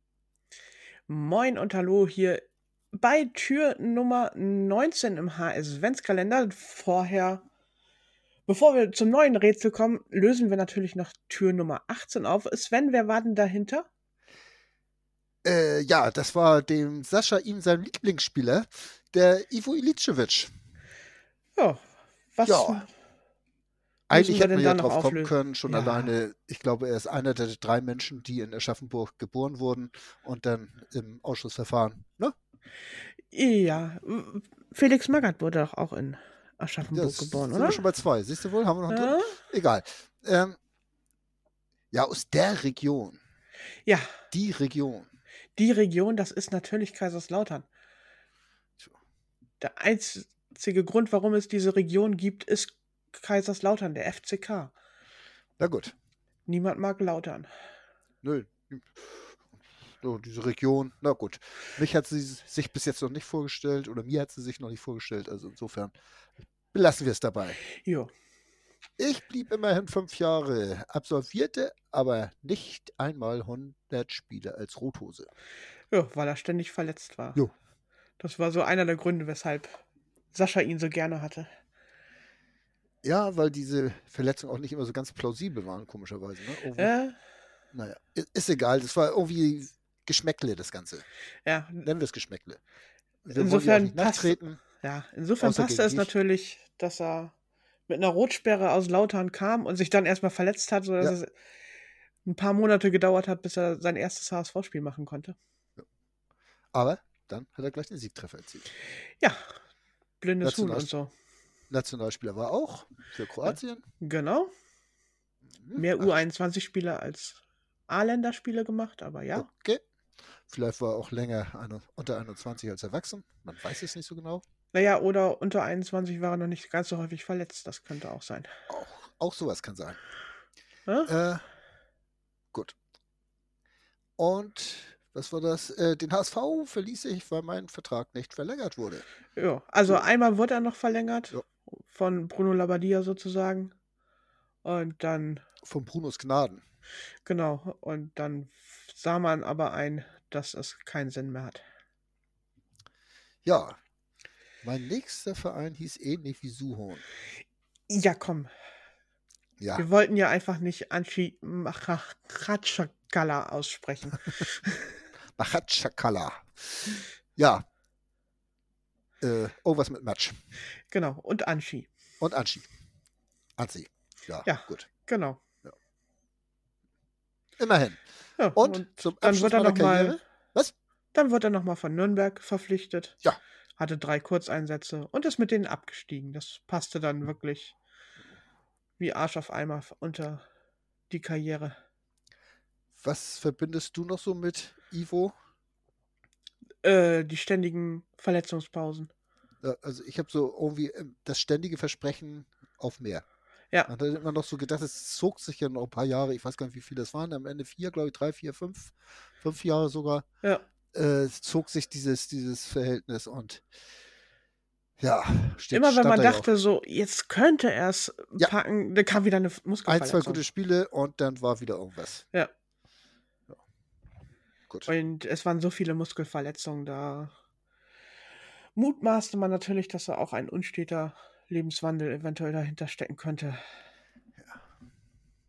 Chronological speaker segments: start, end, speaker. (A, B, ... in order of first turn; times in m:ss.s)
0:01.1-0:07.4 A
0:08.5-0:13.9 A
0:15.4-0:20.5 B
0:21.6-0:21.8 A
0:22.3-0:22.9 A
0:22.4-0:22.9 B
0:24.1-0:32.3 B
0:24.1-0:26.1 A
0:33.3-0:37.8 A
0:36.9-0:40.6 B
0:38.9-0:39.3 A
0:41.9-0:43.2 B
0:44.3-0:45.1 B
0:45.6-0:47.6 A
0:49.6-0:54.7 A
0:55.6-0:55.9 B
0:56.4-0:57.5 A
0:58.2-0:59.3 B
1:00.0-1:05.9 B
1:06.7-1:07.6 B
1:07.8-1:08.1 A
1:09.0-1:15.3 B
1:15.9-1:17.4 A
1:18.2-1:19.8 A
1:20.3-1:21.5 A
1:23.0-1:26.9 B
1:26.8-1:27.1 A
1:27.7-1:31.0 B
1:31.4-1:31.8 A
1:31.8-1:32.6 B
1:33.2-1:34.6 B
1:33.3-1:37.3 A
1:35.4-1:36.1 B
1:37.9-1:41.3 A
1:42.2-1:45.4 A
1:46.7-1:48.7 B
1:50.2-1:51.1 A
1:50.4-1:50.9 B
1:51.7-1:53.8 B
1:53.4-1:54.5 A
1:55.6-1:56.1 B
1:55.7-1:59.5 A
1:59.3-1:59.8 B
2:00.5-2:04.4 B
2:04.7-2:08.5 A
2:08.7-2:10.0 B
2:11.1-2:11.4 B
2:14.2-2:19.0 B
2:19.3-2:23.7 A
2:24.6-2:25.4 A
2:25.6-2:26.6 B
2:27.2-2:31.6 A
2:33.4-2:33.8 B
2:34.6-2:37.0 B
2:37.9-2:38.5 A
2:39.6-2:39.8 B
2:39.8-2:44.9 A
2:45.4-2:47.6 B
2:49.2-2:50.4 B
2:50.9-2:51.9 A
2:52.2-2:52.7 B
2:53.6-2:54.9 B
2:54.4-2:55.4 A
2:57.6-2:58.0 B
2:58.4-3:00.2 A
2:58.5-3:00.7 B
3:01.1-3:03.2 A
3:03.8-3:07.7 A
3:09.0-3:10.4 A
3:11.1-3:11.8 A
3:13.0-3:15.3 B
3:16.8-3:19.1 A
3:19.6-3:23.2 B
3:23.9-3:30.2 B
3:30.9-3:33.6 B
3:35.0-3:36.5 B
3:35.7-3:40.4 A
3:39.8-3:42.2 B
3:44.9-3:47.3 A
3:48.7-3:53.6 A